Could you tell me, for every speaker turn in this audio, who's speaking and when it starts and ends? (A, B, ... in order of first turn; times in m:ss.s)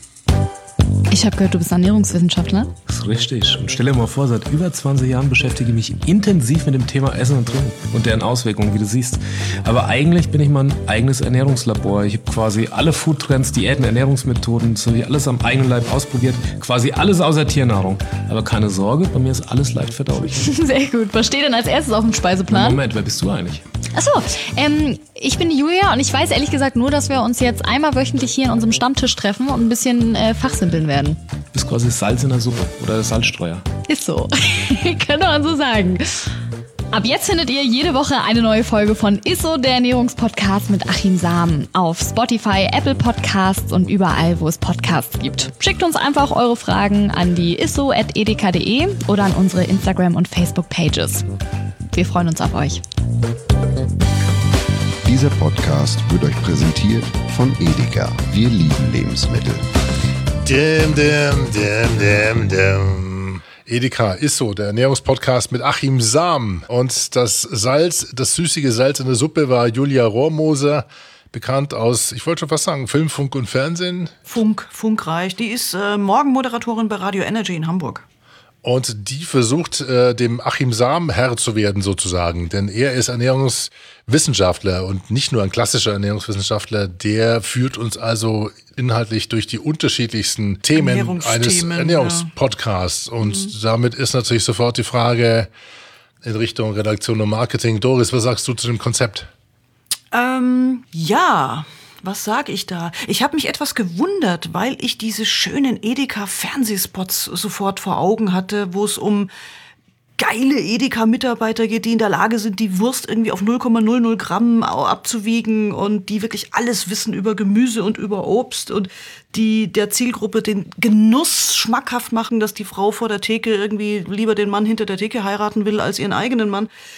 0:01.1-0:02.7 A
0:02.9-0:20.4 B
0:20.4-0:22.8 A
0:22.5-0:23.6 B
0:23.9-0:31.2 A
0:31.5-0:33.6 B
0:33.9-0:36.3 A
0:36.9-0:51.3 A
0:51.9-0:52.8 A
0:55.0-0:59.6 C
1:00.4-1:14.2 D
1:14.3-1:18.0 E
1:18.6-1:35.5 D
1:30.7-1:32.3 E
1:33.2-1:33.5 E
1:36.2-1:39.3 D
1:40.1-1:49.3 E
1:50.2-2:06.7 E